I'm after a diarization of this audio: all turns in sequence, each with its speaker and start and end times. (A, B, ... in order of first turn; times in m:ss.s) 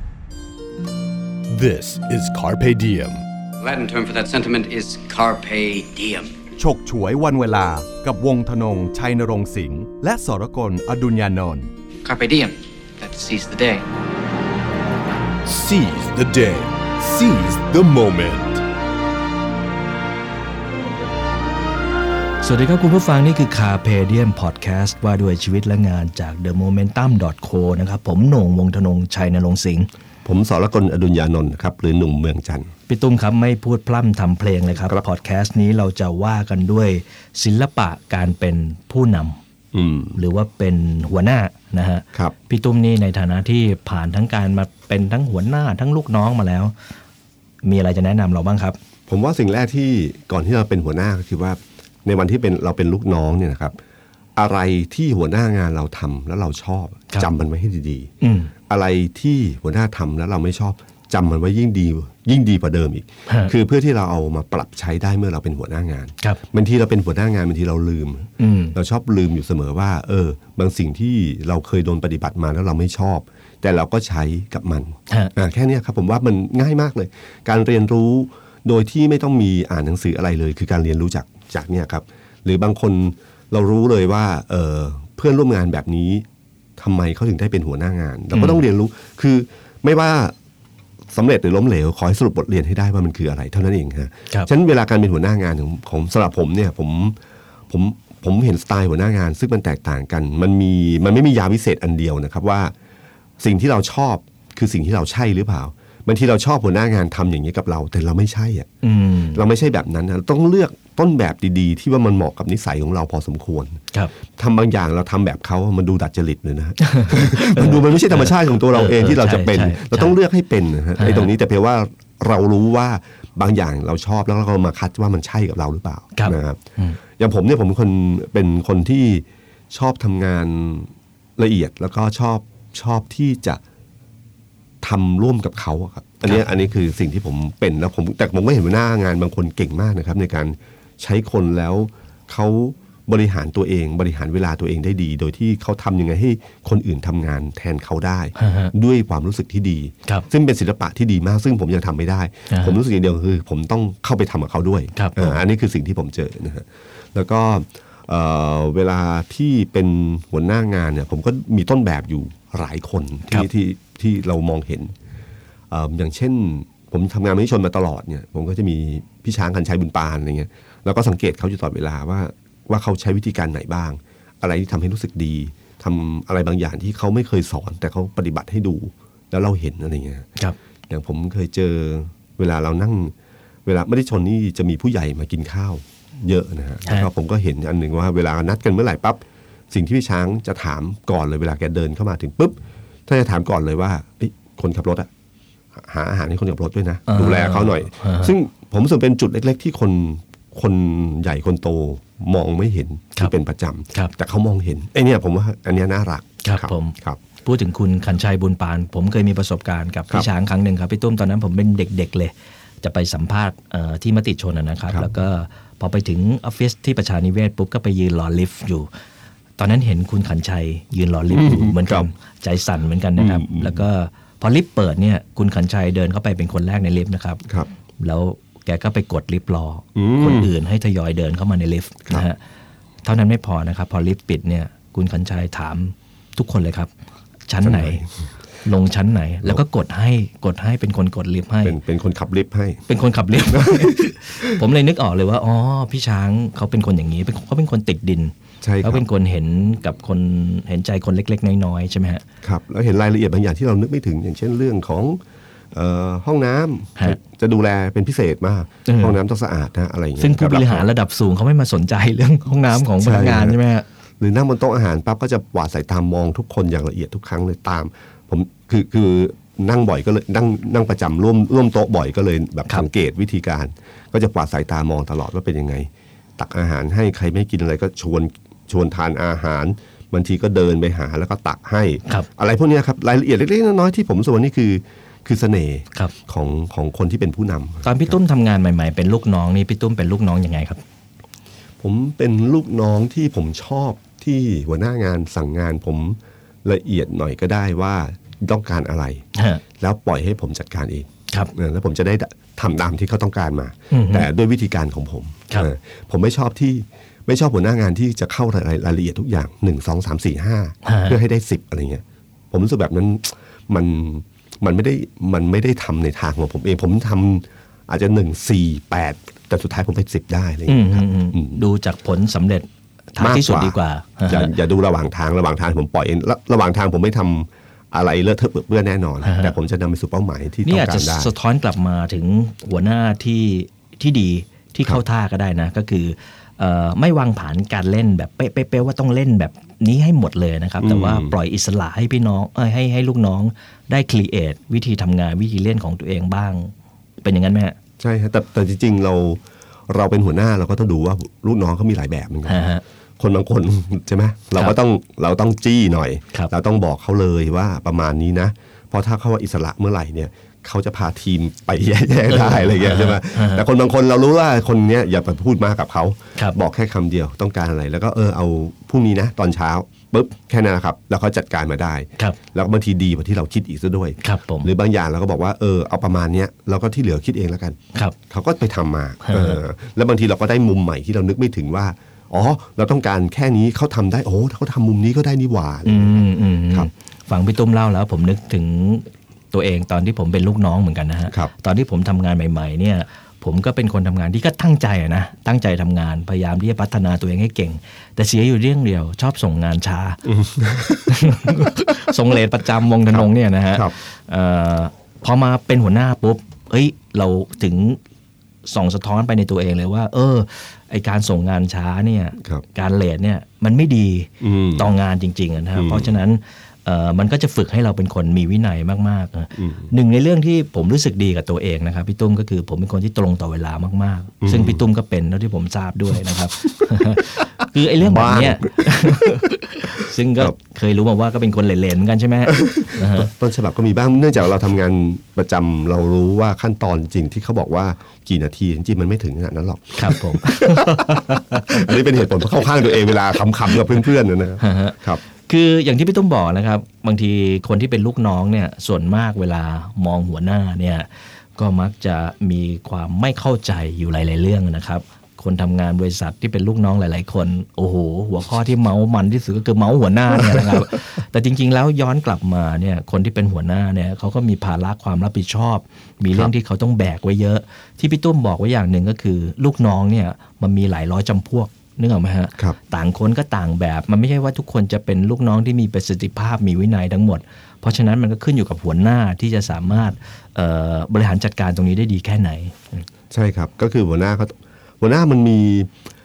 0:01.5-0:03.2 A
0:03.6-0:06.4 B
0:06.6-0:11.7 C
0:12.0-0:13.9 B
0:15.5-0:18.6 A
0:22.4-0:29.9 D
0:30.2-0:32.7 E
0:32.9-0:39.4 D
0:39.7-0:40.2 E
0:40.1-0:46.8 D
0:47.6-0:48.8 D
0:49.1-0:53.8 E
0:54.4-0:58.1 E
0:58.2-0:58.5 D
0:58.7-1:26.2 E
1:08.4-1:08.8 D
1:26.8-1:30.4 E
1:28.3-1:28.6 D
1:31.1-1:37.2 E
1:37.7-1:42.7 E
1:43.4-1:48.7 E
1:48.8-1:49.4 D
1:49.3-2:13.6 E
1:56.8-2:00.2 D
2:01.0-2:01.3 D
2:06.2-2:07.0 D
2:14.8-2:44.9 E
2:28.4-2:28.7 D
2:32.5-2:32.8 D
2:35.0-2:35.4 D
2:45.7-3:00.3 E
3:00.9-3:03.1 E
3:03.7-3:15.1 E
3:15.8-3:27.2 E
3:17.1-3:18.3 D
3:26.4-3:38.9 D
3:39.6-3:47.4 D
3:41.3-3:42.1 E
3:43.2-3:43.8 E
3:48.0-3:52.4 D
3:50.0-3:50.5 E
3:53.0-3:56.9 D
3:57.5-3:58.0 D
3:57.6-3:58.1 E
3:58.6-4:01.8 D
4:01.6-4:04.5 E
4:02.9-4:12.2 D
4:08.6-4:09.1 E
4:12.4-4:15.2 E
4:15.7-4:20.9 E
4:18.9-4:19.2 D
4:20.2-4:23.9 D
4:23.0-4:23.6 E
4:24.2-4:48.2 E
4:47.8-4:50.8 D
4:51.8-4:59.2 E
4:59.4-4:59.6 D
4:59.8-5:21.6 E
5:03.9-5:04.3 D
5:10.8-5:11.2 D
5:20.7-5:24.5 D
5:23.2-5:31.3 E
5:29.2-5:29.5 D
5:30.6-5:47.8 D
5:40.8-5:41.4 E
5:48.0-5:52.6 E
5:52.5-5:52.8 D
5:53.2-6:17.8 E
6:02.3-6:03.6 D
6:14.2-6:14.7 D
6:18.3-6:26.2 E
6:19.3-6:19.6 D
6:25.8-6:40.2 D
6:40.3-6:41.8 E
6:41.1-6:48.0 D
6:43.1-6:43.9 E
6:48.7-7:13.3 D
6:54.4-6:54.9 E
6:55.8-6:56.1 E
6:59.6-6:59.9 E
7:04.4-7:04.8 E
7:08.0-7:09.5 E
7:12.5-7:25.2 E
7:20.0-7:22.2 D
7:24.6-8:03.0 D
8:03.3-8:05.9 E